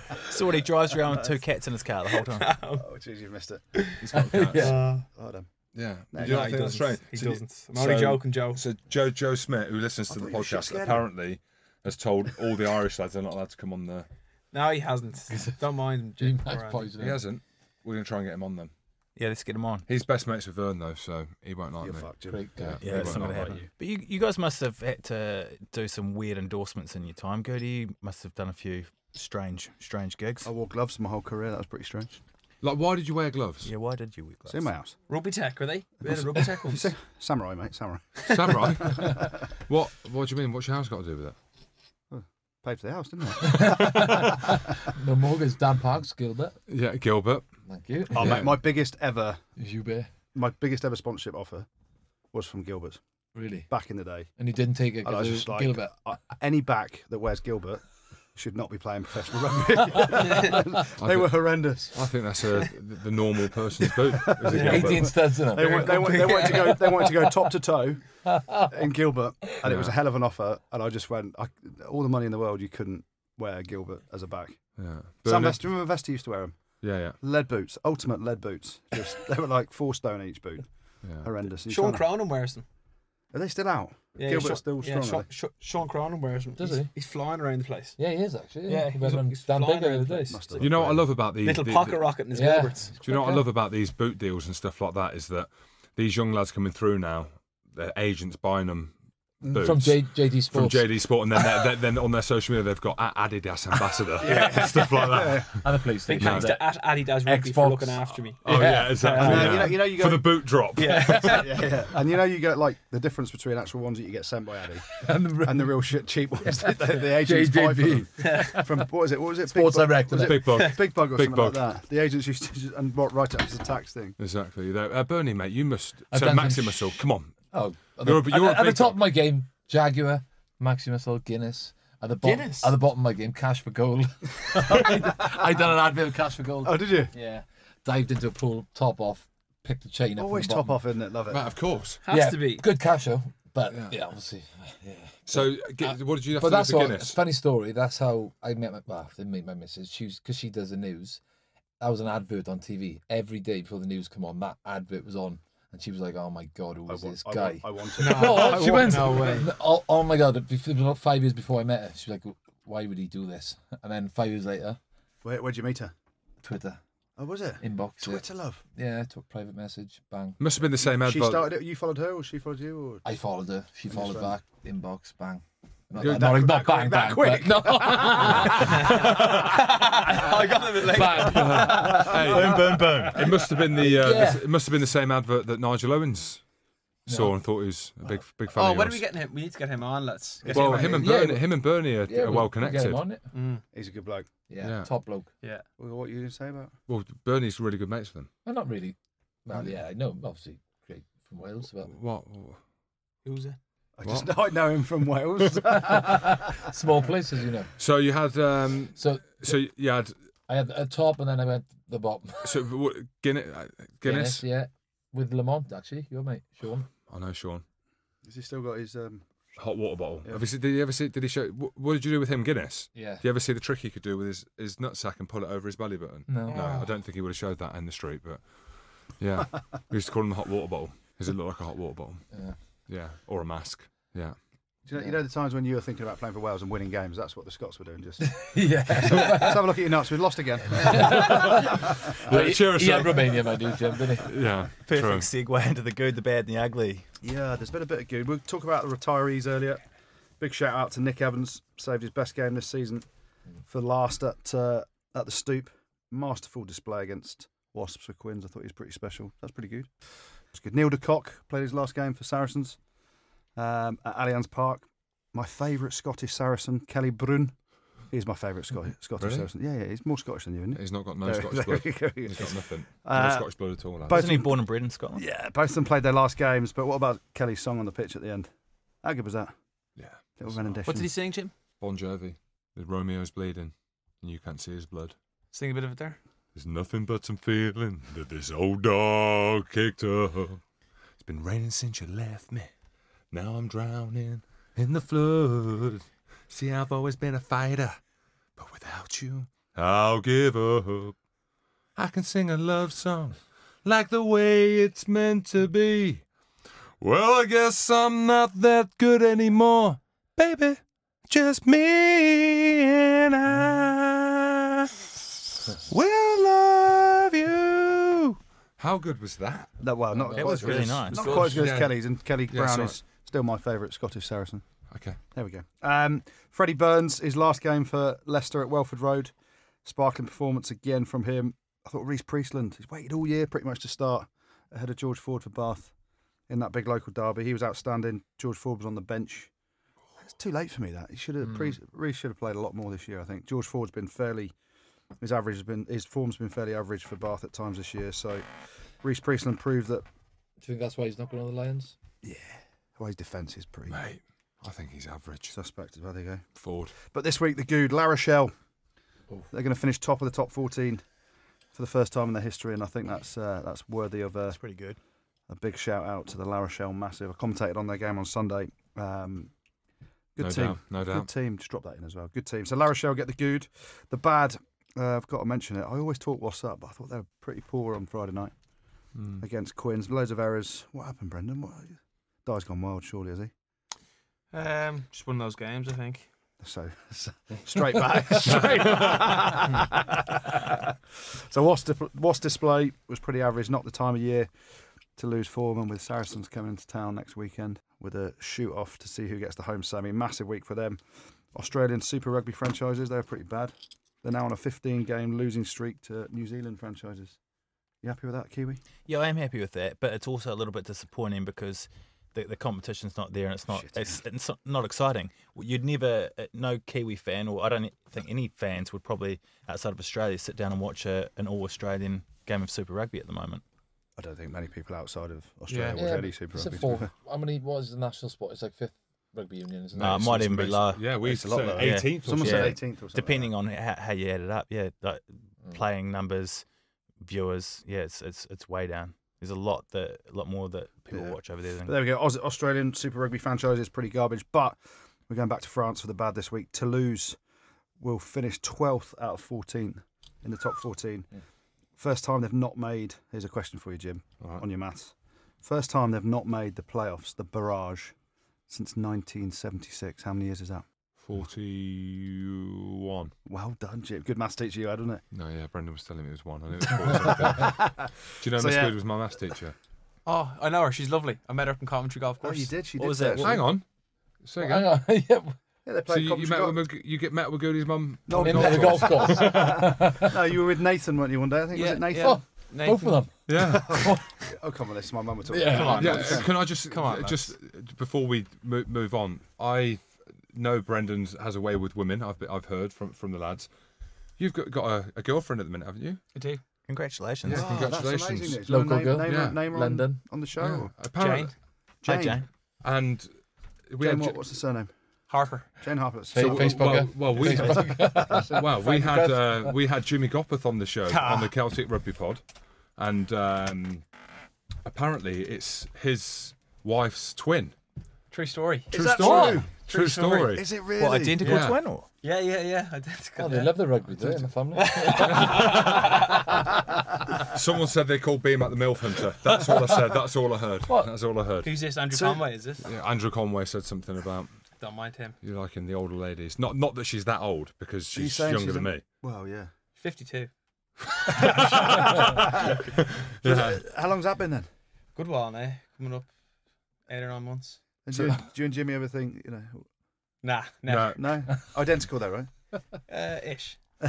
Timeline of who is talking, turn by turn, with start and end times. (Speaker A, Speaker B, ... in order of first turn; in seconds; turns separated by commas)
Speaker A: 0.3-2.5, Speaker B: 2.1-2.9, Speaker C: 2.7-3.6, Speaker B: 3.7-4.0, Speaker D: 4.0-4.8, Speaker E: 4.1-4.8, Speaker B: 4.5-5.0, Speaker C: 4.9-5.5, Speaker D: 5.7-14.1, Speaker C: 6.1-6.8, Speaker B: 6.2-8.6, Speaker C: 10.1-11.1, Speaker B: 14.5-16.9, Speaker E: 15.3-15.6, Speaker E: 16.2-17.2, Speaker D: 17.0-18.7, Speaker A: 19.2-19.9, Speaker D: 19.9-23.5, Speaker C: 21.8-23.7, Speaker E: 22.3-23.1, Speaker A: 22.8-30.5, Speaker C: 30.4-32.2, Speaker D: 32.6-33.7, Speaker A: 33.6-34.7, Speaker C: 34.5-35.0, Speaker B: 35.1-36.9, Speaker C: 36.1-39.3, Speaker B: 38.2-38.5, Speaker D: 38.3-41.4, Speaker C: 42.1-43.9, Speaker E: 43.4-46.6, Speaker D: 43.7-44.3, Speaker D: 46.7-47.5, Speaker E: 47.7-48.6, Speaker C: 48.1-49.4, Speaker D: 48.2-48.5, Speaker E: 49.6-50.1, Speaker C: 50.3-51.7, Speaker C: 52.3-53.0, Speaker E: 53.4-53.7, Speaker C: 53.7-54.3, Speaker E: 54.4-55.9, Speaker C: 55.0-57.8, Speaker C: 58.4-62.0, Speaker B: 60.2-60.6, Speaker D: 61.0-65.2, Speaker C: 63.8-74.6, Speaker E: 64.5-67.0, Speaker B: 64.5-67.1, Speaker E: 68.3-68.9, Speaker D: 69.6-70.0, Speaker D: 74.8-75.6, Speaker C: 75.2-80.7, Speaker D: 76.8-77.2, Speaker D: 81.0-81.3, Speaker C: 81.2-82.1, Speaker B: 81.7-82.6, Speaker C: 83.3-85.3, Speaker B: 84.2-88.0, Speaker E: 86.6-86.9, Speaker E: 88.0-90.4, Speaker B: 88.7-90.7, Speaker C: 90.3-91.1, Speaker D: 90.6-92.1, Speaker B: 91.4-92.9, Speaker E: 92.3-93.5, Speaker D: 93.0-106.5, Speaker E: 99.5-100.9, Speaker C: 104.2-105.5, Speaker B: 104.2-104.8, Speaker E: 105.5-109.5, Speaker B: 106.1-109.8, Speaker D: 108.4-111.5, Speaker C: 109.2-110.4, Speaker B: 110.8-111.7, Speaker C: 111.2-124.2, Speaker E: 114.9-115.9, Speaker E: 116.4-118.8, Speaker B: 118.2-118.6, Speaker E: 119.5-120.5, Speaker D: 120.1-121.6, Speaker D: 124.2-127.4, Speaker E: 126.1-127.0, Speaker E: 127.5-140.8, Speaker D: 128.0-129.0, Speaker B: 132.2-132.7, Speaker C: 136.6-137.1, Speaker C: 140.2-141.4, Speaker D: 141.3-142.0, Speaker B: 142.0-142.7, Speaker E: 142.1-151.2, Speaker D: 143.7-143.9, Speaker D: 145.3-147.2, Speaker E: 151.8-164.8, Speaker C: 156.9-159.4, Speaker B: 158.0-159.5, Speaker C: 165.2-165.9, Speaker E: 166.4-166.8, Speaker C: 167.2-168.6, Speaker E: 167.6-170.4, Speaker D: 170.4-171.5, Speaker C: 170.8-173.1, Speaker E: 173.0-182.1, Speaker C: 173.9-174.3, Speaker C: 176.0-179.6, Speaker D: 176.0-176.3, Speaker B: 178.7-182.0, Speaker D: 181.2-186.4, Speaker C: 181.6-183.3, Speaker A: 181.9-183.4, Speaker E: 183.8-184.5, Speaker D: 187.1-189.0, Speaker E: 187.1-187.3, Speaker B: 188.5-191.0, Speaker C: 190.4-191.2, Speaker D: 190.5-193.0, Speaker E: 190.8-193.2, Speaker B: 193.3-193.6, Speaker C: 193.7-194.3, Speaker E: 194.5-195.3, Speaker D: 194.6-194.9, Speaker C: 195.8-196.7, Speaker D: 196.9-198.3, Speaker E: 198.4-201.9, Speaker D: 201.8-202.6, Speaker B: 203.2-203.6, Speaker C: 204.0-206.5, Speaker D: 204.0-204.4, Speaker E: 205.7-207.7, Speaker D: 207.8-210.1, Speaker E: 209.0-209.6, Speaker E: 210.5-212.6, Speaker D: 212.4-214.4, Speaker E: 214.0-216.9, Speaker D: 217.1-217.6, Speaker C: 218.2-219.3, Speaker D: 219.6-232.3, Speaker E: 222.9-223.2, Speaker E: 226.3-226.8, Speaker B: 226.5-226.9, Speaker D: 232.9-234.4, Speaker C: 234.9-241.8, Speaker E: 238.2-239.7, Speaker E: 240.7-244.3, Speaker D: 241.2-243.5, Speaker D: 244.2-245.3, Speaker A: 244.8-247.1, Speaker C: 247.2-249.8, Speaker C: 250.4-253.1, Speaker C: 253.7-259.9, Speaker C: 260.5-262.8, Speaker C: 263.6-267.6, Speaker C: 268.1-273.5, Speaker D: 269.2-269.5, Speaker D: 270.7-274.4, Speaker C: 274.0-278.5, Speaker A: 274.1-275.2, Speaker C: 279.0-279.5, Speaker D: 280.0-280.9, Speaker C: 280.4-281.1, Speaker B: 280.9-281.5, Speaker D: 281.8-285.2, Speaker B: 285.5-286.2, Speaker D: 286.6-290.6, Speaker D: 291.2-292.7, Speaker D: 293.3-298.0, Speaker D: 298.6-301.2, Speaker D: 302.0-306.2, Speaker D: 307.0-319.8, Speaker C: 319.8-324.7, Speaker E: 320.1-321.0, Speaker A: 320.4-321.6, Speaker D: 320.7-323.0, Speaker B: 321.1-321.6, Speaker D: 324.9-325.2, Speaker C: 325.3-329.3, Speaker C: 329.8-335.9, Speaker C: 336.5-339.5, Speaker C: 340.2-344.5, Speaker C: 345.2-348.5, Speaker C: 349.0-350.1, Speaker E: 350.6-352.0, Speaker C: 352.2-354.0, Speaker D: 353.9-355.6, Speaker C: 355.5-356.4, Speaker D: 356.6-357.0, Speaker C: 357.0-358.5, Speaker C: 359.5-361.0, Speaker C: 361.7-364.6, Speaker A: 364.5-365.0, Speaker C: 365.5-369.5, Speaker C: 370.4-378.5, Speaker D: 370.4-371.3, Speaker D: 379.2-379.4, Speaker C: 379.4-383.5, Speaker B: 384.5-386.3, Speaker C: 386.6-394.5, Speaker D: 388.5-389.2, Speaker C: 395.1-407.4, Speaker C: 408.0-408.8, Speaker A: 409.1-423.6, Speaker C: 413.7-414.2, Speaker C: 424.2-427.1, Speaker D: 425.7-426.0, Speaker E: 426.0-430.4, Speaker D: 430.0-432.8, Speaker A: 430.0-436.6, Speaker C: 431.2-433.5, Speaker A: 437.2-442.0, Speaker C: 441.1-447.4, Speaker C: 448.0-451.3, Speaker C: 452.0-458.1, Speaker C: 458.7-460.9, Speaker D: 461.2-463.3, Speaker C: 463.5-465.2, Speaker D: 465.3-469.8, Speaker C: 467.1-469.0, Speaker B: 470.2-472.8, Speaker C: 472.4-473.6, Speaker A: 473.0-473.7, Speaker D: 473.4-473.9, Speaker D: 474.4-474.9, Speaker E: 474.6-475.6, Speaker C: 475.9-476.8, Speaker D: 476.1-479.8, Speaker C: 478.3-482.4, Speaker E: 478.4-480.4, Speaker B: 481.7-483.2, Speaker E: 482.1-484.3, Speaker D: 483.5-484.2, Speaker C: 483.9-486.7, Speaker E: 485.5-486.4, Speaker B: 485.7-487.4, Speaker D: 485.8-493.7, Speaker D: 494.4-496.2, Speaker B: 496.4-496.6, Speaker A: 496.9-498.0, Speaker D: 497.4-498.6, Speaker C: 497.5-500.9, Speaker E: 498.7-500.2, Speaker D: 499.2-499.6, Speaker D: 500.6-501.5, Speaker B: 501.2-501.5, Speaker C: 502.0-502.4, Speaker A: 502.0-502.5, Speaker D: 502.8-503.3, Speaker D: 503.9-504.4, Speaker C: 504.0-504.9, Speaker B: 505.3-505.7, Speaker C: 505.8-508.8, Speaker E: 506.3-509.8, Speaker D: 506.4-512.4, Speaker B: 511.1-511.5, Speaker D: 513.0-514.0, Speaker D: 514.9-517.8, Speaker B: 518.3-520.5, Speaker C: 518.9-521.7, Speaker D: 518.9-520.7, Speaker E: 519.0-519.6, Speaker A: 521.0-522.0, Speaker D: 521.4-521.8, Speaker B: 522.2-523.8, Speaker E: 523.4-526.7, Speaker B: 524.7-526.5, Speaker D: 525.2-526.3, Speaker D: 527.4-531.7, Speaker E: 529.7-530.0, Speaker E: 530.9-531.1, Speaker B: 531.6-532.9, Speaker C: 532.1-532.5, Speaker D: 532.8-534.5, Speaker B: 534.8-535.4, Speaker D: 535.4-539.0, Speaker C: 538.1-539.7, Speaker B: 540.0-540.5, Speaker D: 541.1-543.8, Speaker C: 541.5-542.8, Speaker B: 541.6-542.8, Speaker C: 543.4-544.7, Speaker B: 545.1-546.3, Speaker B: 547.1-547.8, Speaker C: 548.1-549.9, Speaker B: 550.4-551.2, Speaker D: 550.9-551.2, Speaker C: 551.1-552.5, Speaker B: 553.1-553.8